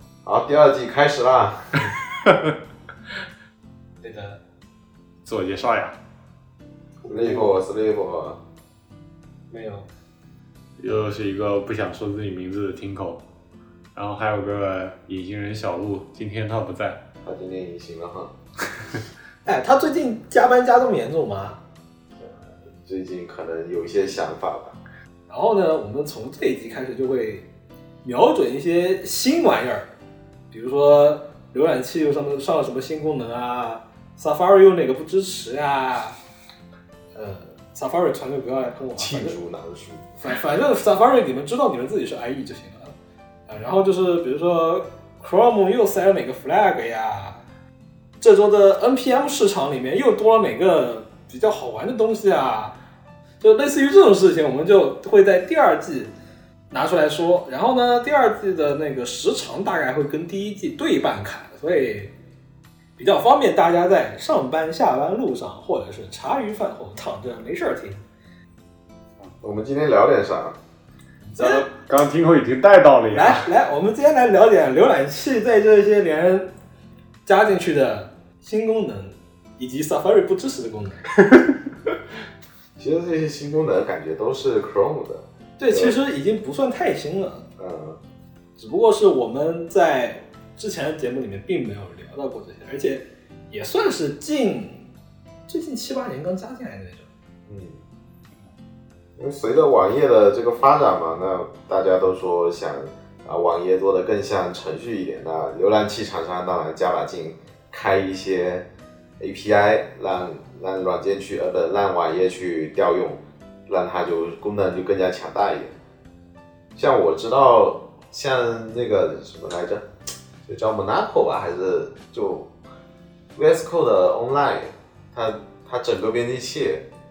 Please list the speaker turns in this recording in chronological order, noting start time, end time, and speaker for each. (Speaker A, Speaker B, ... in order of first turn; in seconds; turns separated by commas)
Speaker A: 0.2-1.8, Speaker B: 1.9-2.5, Speaker C: 4.0-4.4, Speaker B: 5.2-6.0, Speaker A: 7.0-8.4, Speaker C: 7.0-7.5, Speaker C: 9.5-9.9, Speaker B: 10.8-13.2, Speaker B: 13.9-17.0, Speaker A: 17.2-18.3, Speaker C: 19.4-21.6, Speaker A: 22.2-24.8, Speaker C: 25.3-27.5, Speaker C: 28.0-29.9, Speaker C: 30.5-36.2, Speaker C: 37.1-39.4, Speaker A: 39.0-40.1, Speaker C: 40.2-42.9, Speaker C: 43.5-47.4, Speaker C: 48.2-52.8, Speaker C: 53.4-56.1, Speaker C: 56.7-62.1, Speaker C: 63.0-68.0, Speaker A: 69.4-70.6, Speaker C: 71.3-71.7, Speaker B: 71.4-73.5, Speaker C: 73.1-76.5, Speaker C: 77.2-81.1, Speaker A: 82.8-86.0, Speaker C: 85.6-87.5, Speaker A: 87.6-88.0, Speaker C: 88.6-94.9, Speaker C: 95.5-97.1, Speaker A: 97.5-97.8, Speaker A: 99.2-108.7, Speaker A: 109.2-115.7, Speaker A: 116.8-119.8, Speaker A: 120.5-122.5, Speaker A: 123.3-126.9